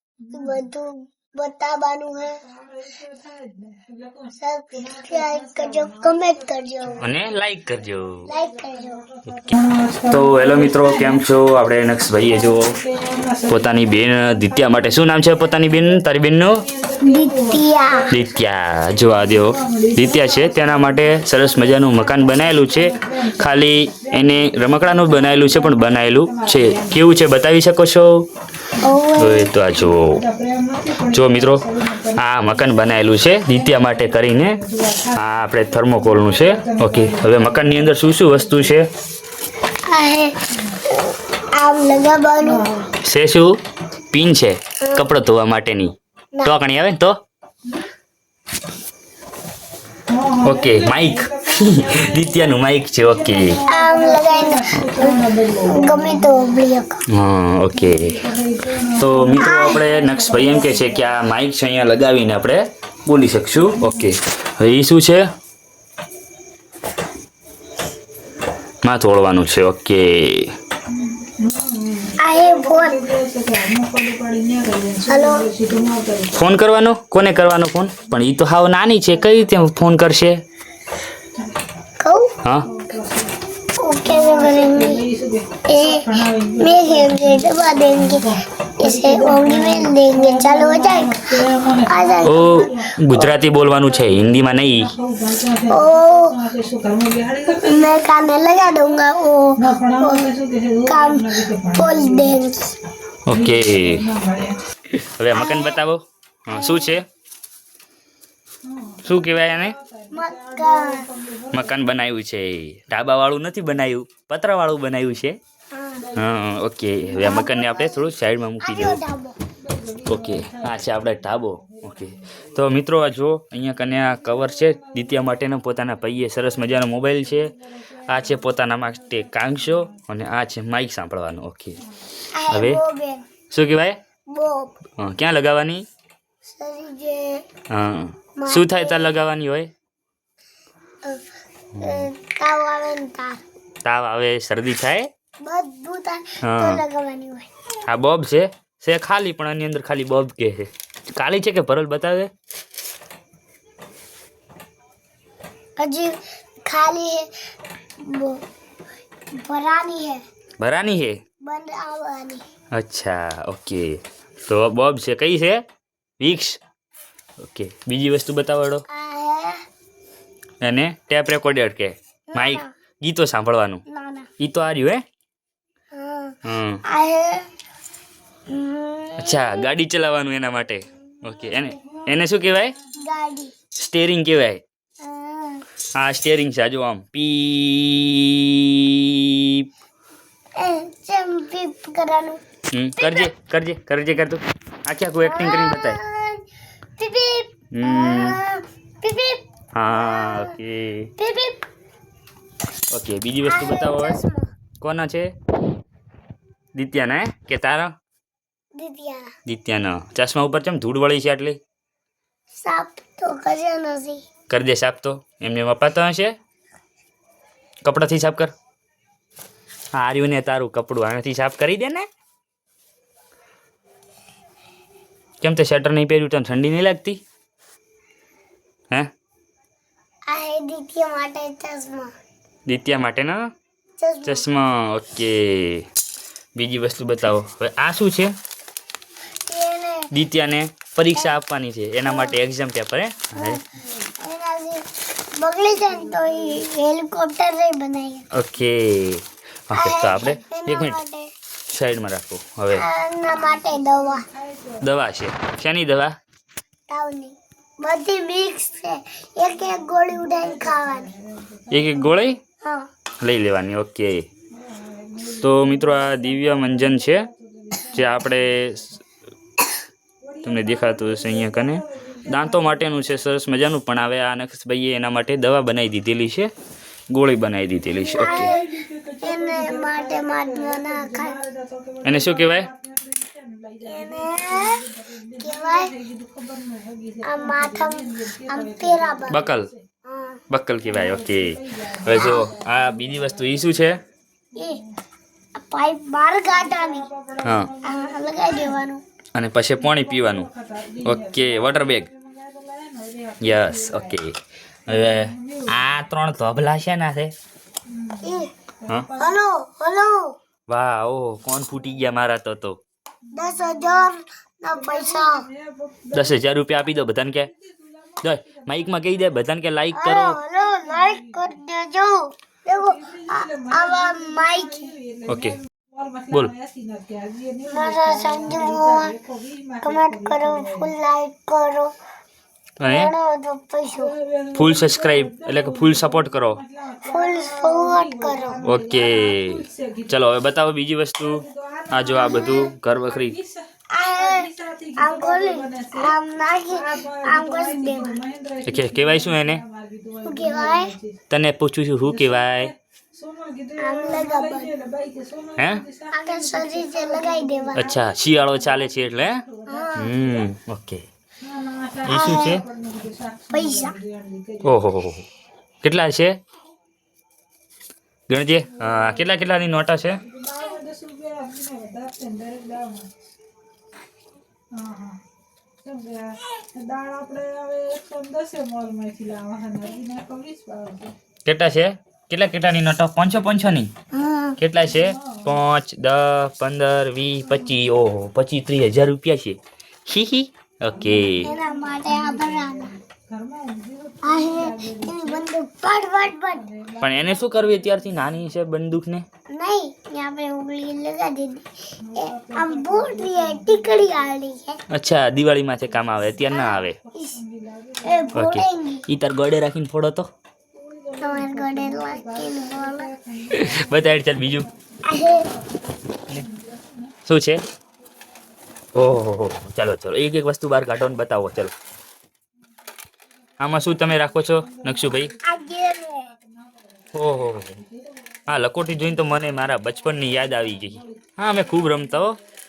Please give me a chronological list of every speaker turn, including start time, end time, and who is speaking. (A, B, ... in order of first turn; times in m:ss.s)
0:00.2-0:00.6 A
0:00.3-0:02.4 B
0:02.3-0:11.2 A
0:04.4-0:07.0 B
0:07.0-0:08.3 C
0:08.3-0:09.0 B
0:10.1-0:12.8 C
0:12.1-0:16.0 A
0:13.5-0:16.6 C
0:16.6-0:18.4 A
0:17.0-0:18.1 B
0:18.1-0:28.3 C
0:19.2-0:27.0 A
0:28.8-0:29.5 B
0:29.2-0:30.2 C
0:29.8-0:38.8 A
0:31.1-0:34.6 C
0:35.1-0:38.9 C
0:39.9-0:40.4 B
0:40.9-0:42.7 B
0:42.4-0:42.9 A
0:43.0-0:43.6 C
0:44.1-0:47.2 C
0:44.8-0:45.1 B
0:50.1-0:56.6 A
0:50.4-0:53.6 C
0:53.7-0:57.0 B
0:57.1-0:58.3 C
0:57.7-1:01.1 A
0:58.9-1:05.3 C
0:59.4-0:59.8 B
1:03.6-1:04.1 A
1:08.8-1:10.6 C
1:10.9-1:16.4 A
1:12.2-1:13.0 B
1:15.1-1:15.5 B
1:16.3-1:20.4 C
1:22.0-1:22.3 B
1:22.6-1:23.4 A
1:23.8-1:25.1 B
1:24.0-1:33.2 A
1:25.7-1:31.2 B
1:31.8-1:32.7 B
1:32.2-1:34.9 C
1:33.9-1:38.0 A
1:35.7-1:36.4 B
1:37.5-1:40.3 B
1:39.6-1:42.4 A
1:40.8-1:42.7 B
1:43.3-1:44.1 C
1:43.3-1:44.6 A
1:45.0-1:47.0 C
1:45.3-1:45.8 B
1:46.5-1:47.0 B
1:48.6-1:51.8 A
1:49.0-1:49.8 C
1:50.1-1:51.1 B
1:51.5-1:55.4 C
1:55.7-1:56.1 B
1:56.0-1:56.3 A
1:56.2-1:59.0 C
1:57.1-1:59.4 B
1:59.6-2:02.4 A
2:00.1-2:07.5 C
2:04.0-2:10.1 A
2:08.1-2:11.8 C
2:11.8-2:12.0 A
2:12.3-2:13.2 B
2:12.5-2:12.8 C
2:13.5-2:14.0 C
2:14.3-2:14.8 B
2:15.0-2:15.9 C
2:16.5-2:17.4 B
2:17.7-2:19.7 C
2:18.4-2:19.1 B
2:21.8-2:22.1 C
2:21.8-2:23.4 B
2:23.8-2:25.1 C
2:25.4-2:27.5 B
2:26.4-2:26.8 C
2:27.9-2:32.3 C
2:35.8-2:36.1 B
2:36.6-2:37.3 B
2:38.0-2:38.4 B
2:39.4-2:40.2 B
2:40.6-2:41.2 C
2:41.4-2:42.4 B
2:42.7-2:45.6 C
2:46.2-2:46.6 C
2:47.4-2:48.8 C
2:48.9-2:49.6 B
2:50.6-2:53.8 C
2:52.3-2:52.7 B
2:53.9-2:54.3 B
2:54.4-2:55.0 C
2:55.9-2:56.4 B
2:56.4-2:56.8 C
2:56.9-2:57.5 B
2:58.5-2:59.6 B
2:59.2-3:02.8 C
3:01.3-3:02.9 A
3:03.0-3:03.5 B
3:03.8-3:04.6 C
3:05.0-3:05.6 B
3:06.0-3:09.7 C
3:10.6-3:12.4 B
3:12.7-3:16.0 C
3:13.0-3:13.3 B
3:15.2-3:16.5 B
3:17.0-3:20.6 B
3:17.7-3:18.4 C
3:19.8-3:21.1 C
3:21.2-3:21.6 B
3:22.9-3:24.2 C
3:23.4-3:24.5 B
3:24.8-3:25.3 C
3:26.8-3:27.9 C
3:28.8-3:29.3 B
3:29.5-3:31.6 C
3:32.6-3:34.2 B
3:34.5-3:36.3 C
3:37.8-3:38.5 C
3:40.0-3:42.1 C
3:45.4-3:47.2 C
3:50.3-3:52.1 B
3:52.7-3:53.4 C
3:54.0-3:54.5 B
3:54.2-3:55.9 C
3:56.6-3:58.3 C
3:59.5-4:00.1 B
4:00.1-4:03.6 C
4:02.0-4:02.4 B
4:03.4-4:03.6 B
4:04.2-4:04.8 B
4:05.4-4:08.3 B
4:05.8-4:06.6 A
4:08.3-4:11.0 C
4:09.8-4:11.3 B
4:11.7-4:12.8 C
4:12.7-4:14.3 B
4:13.4-4:14.9 A
4:14.8-4:16.1 C
4:16.9-4:21.1 B
4:20.1-4:22.3 A
4:21.7-4:22.4 C
4:22.6-4:22.9 B
4:23.2-4:24.3 C
4:24.5-4:28.9 A
4:25.3-4:27.3 C
4:27.9-4:29.0 C
4:30.2-4:33.1 A
4:30.4-4:36.5 C
4:37.1-4:38.6 C
4:38.1-4:38.6 B
4:38.1-4:49.8 A
4:39.2-4:41.4 B
4:42.0-4:42.7 C
4:43.9-4:44.8 B
4:45.4-4:45.9 B
4:47.2-4:49.5 B
4:49.3-4:49.7 C
4:50.0-4:50.4 B
4:50.5-4:54.0 C
4:50.8-4:53.9 A
4:52.2-4:52.5 B
4:54.6-4:54.8 B
4:54.6-4:54.9 A
4:55.6-4:57.1 B
4:56.5-4:58.8 A
4:57.4-4:57.7 C
4:57.8-4:59.0 B
4:59.4-5:00.5 C
4:59.8-5:04.2 A
5:01.0-5:02.1 C
5:03.4-5:07.3 C
5:04.9-5:05.8 A
5:07.9-5:09.3 A
5:08.2-5:08.5 B
5:09.2-5:10.4 B
5:10.7-5:12.8 C
5:13.3-5:14.1 A
5:13.3-5:15.5 B
5:14.7-5:16.4 A
5:16.1-5:17.5 C
5:17.4-5:19.4 A
5:18.2-5:20.4 C
5:19.9-5:24.9 B
5:20.8-5:21.6 A
5:22.7-5:30.9 A
5:25.3-5:25.6 C
5:27.7-5:29.1 B
5:29.8-5:31.9 B
5:32.8-5:33.1 C
5:32.9-5:34.1 B
5:33.9-5:40.2 A
5:34.5-5:36.6 C
5:37.0-5:38.6 B
5:38.6-5:43.4 C
5:41.2-5:46.1 A
5:42.2-5:42.7 B
5:43.9-5:48.2 B
5:46.7-5:51.2 A
5:48.7-5:49.6 C
5:50.2-5:50.9 B
5:51.3-5:52.7 C
5:52.0-6:00.5 A
5:53.8-5:54.7 B
5:55.6-5:55.8 C
5:56.1-5:57.9 B
5:57.8-5:59.4 C
5:59.7-6:00.2 B
6:00.0-6:01.0 C
6:01.4-6:04.8 A
6:02.1-6:02.6 C
6:02.1-6:02.6 B
6:03.5-6:03.9 B
6:04.6-6:05.3 C
6:05.8-6:06.4 C
6:08.3-6:10.2 C
6:08.7-6:09.6 A
6:10.2-6:13.1 A
6:14.7-6:15.2 A
6:15.8-6:21.2 A
6:21.5-6:23.9 C
6:24.1-6:24.6 B
6:24.6-6:31.5 C
6:24.9-6:25.6 A
6:27.4-6:27.8 A
6:30.9-6:35.5 A
6:31.4-6:33.0 B
6:34.2-6:36.6 B
6:36.5-6:38.8 A
6:37.0-6:39.2 C
6:39.5-6:44.8 B
6:42.0-6:44.3 A
6:44.9-6:47.0 C
6:45.8-6:48.5 A
6:46.5-6:47.4 B
6:48.0-6:49.1 B
6:48.4-6:50.3 C
6:50.7-6:57.2 A
6:51.2-6:53.1 B
6:53.5-6:54.7 C
6:55.0-6:55.5 B
6:57.2-6:57.6 C
6:59.0-7:01.8 C
7:03.5-7:12.4 A
7:03.6-7:05.3 C
7:05.4-7:06.3 B
7:07.1-7:07.8 C
7:08.5-7:12.4 C